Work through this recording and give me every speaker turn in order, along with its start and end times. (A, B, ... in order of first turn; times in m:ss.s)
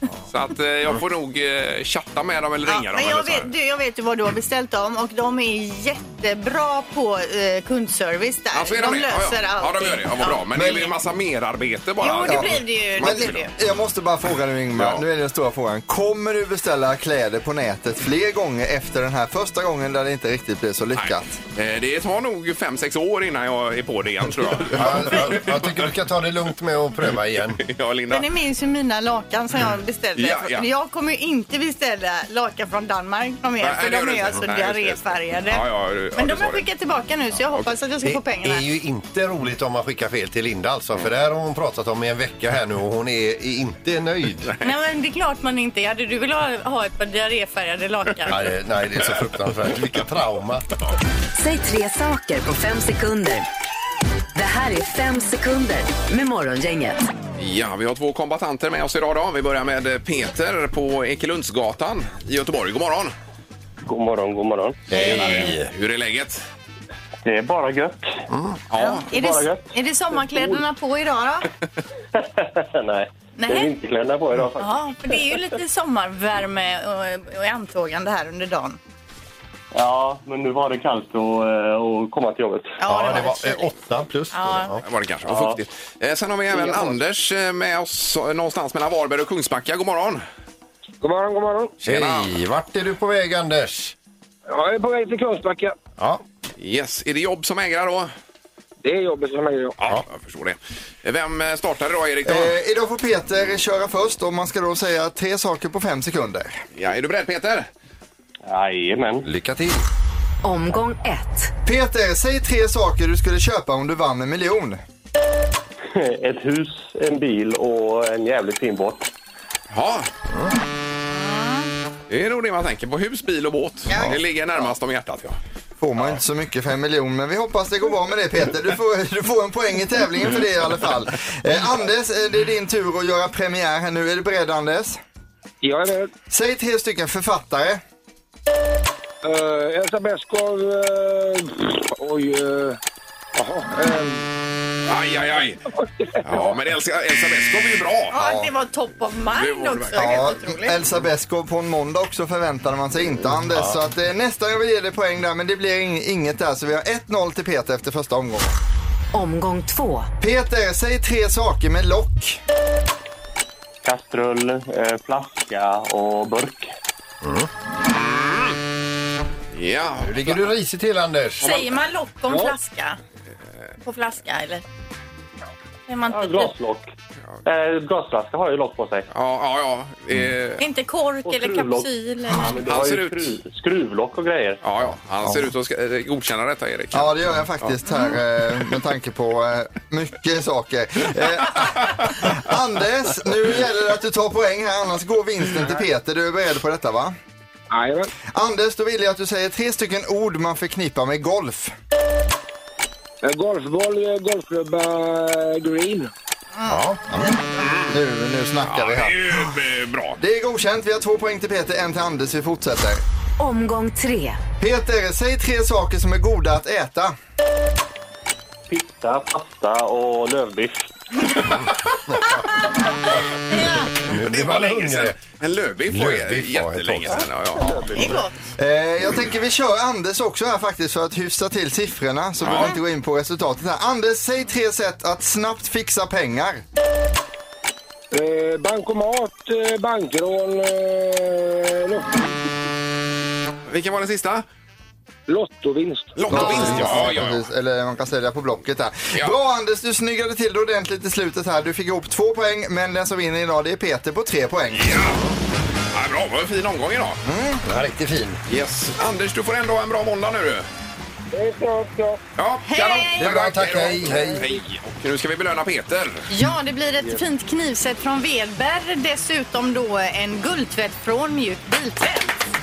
0:00.3-0:03.5 A
0:02.6-0:10.4 B
0:08.5-0:13.5 A
0:10.6-0:10.9 C
0:12.0-0:13.5 B
0:12.2-0:21.4 C
0:14.7-0:15.0 A
0:20.9-0:25.8 A
0:24.6-0:27.6 D
0:27.0-0:28.2 A
0:28.1-0:35.6 B
0:30.2-0:30.6 A
0:33.6-0:36.6 A
0:36.1-0:38.6 B
0:38.0-0:44.5 D
0:44.6-0:48.5 B
0:48.3-0:50.7 D
0:51.4-0:53.4 E
0:54.3-0:57.1 E
0:57.4-1:03.1 A
1:03.8-1:04.8 F
1:04.9-1:05.7 D
1:04.9-1:05.5 B
1:04.9-1:06.4 A
1:07.2-1:08.2 F
1:08.3-1:08.6 D
1:08.7-1:09.0 A
1:08.8-1:11.5 B
1:09.1-1:09.7 F
1:12.1-1:14.8 F
1:13.4-1:13.7 B
1:14.6-1:18.8 B
1:19.7-1:22.8 F
1:22.8-1:23.7 B
1:22.8-1:24.8 D
1:24.3-1:24.7 B
1:24.8-1:30.2 A
1:25.3-1:25.6 F
1:26.5-1:26.9 F
1:31.0-1:31.8 G
1:31.8-1:33.9 D
1:31.8-1:32.3 A
1:34.5-1:35.8 G
1:36.6-1:38.1 A
1:38.8-1:39.9 G
1:40.0-1:42.6 A
1:42.2-1:46.6 C
1:46.7-1:47.7 A
1:48.4-1:49.3 F
1:49.2-1:49.8 D
1:50.4-1:51.5 E
1:51.6-1:54.8 C
1:55.9-1:59.1 F
1:59.7-2:00.1 A
2:01.1-2:01.7 B
2:02.1-2:05.4 A
2:03.9-2:04.2 B
2:05.8-2:15.0 C
2:15.6-2:16.1 G
2:16.3-2:17.8 C
2:19.2-2:22.8 G
2:23.4-2:24.3 G
2:24.9-2:25.6 A
2:25.7-2:26.5 G
2:26.2-2:28.4 A
2:28.1-2:30.8 B
2:29.3-2:30.2 A
2:29.9-2:38.5 C
2:33.5-2:33.8 D
2:39.1-2:40.1 E
2:40.2-2:42.4 C
2:43.8-2:46.7 F
2:47.2-2:47.5 D
2:47.9-2:48.6 A
2:49.5-2:50.4 A
2:50.0-2:51.4 D
2:51.4-2:53.0 B
2:53.8-2:54.6 B
2:55.9-2:56.6 B
2:56.1-2:56.9 F
2:57.4-2:59.1 F
2:59.1-3:00.6 A
3:00.6-3:02.6 B
3:01.2-3:04.6 F
3:02.5-3:03.3 A
3:04.6-3:07.7 A
3:06.9-3:17.2 C
3:07.8-3:08.1 B
3:17.7-3:18.1 G
3:18.3-3:21.7 C
3:23.2-3:26.1 G
3:26.6-3:27.7 B
3:26.7-3:27.4 D
3:27.6-3:27.9 A
3:27.8-3:29.5 C
3:28.6-3:30.2 A
3:30.2-3:33.0 C
3:33.4-3:34.4 E
3:34.6-3:37.2 C
3:38.7-3:40.9 F
3:42.1-3:42.4 D
3:43.5-3:45.2 D
3:43.5-3:43.9 B
3:44.2-3:47.9 A
3:45.9-3:48.2 D
3:47.8-3:48.3 B
3:48.6-3:56.6 C
3:52.4-3:52.7 A
3:58.1-4:02.2 G
4:03.7-4:04.4 A
4:05.3-4:06.8 G
4:06.2-4:07.4 A
4:06.3-4:15.1 C
4:14.7-4:15.2 A
4:15.9-4:17.2 A
4:17.2-4:17.6 C
4:17.6-4:18.4 D
4:18.5-4:20.7 A
4:21.3-4:22.2 G
4:22.4-4:26.3 A
4:22.6-4:23.4 B
4:23.1-4:24.4 D
4:26.3-4:32.4 B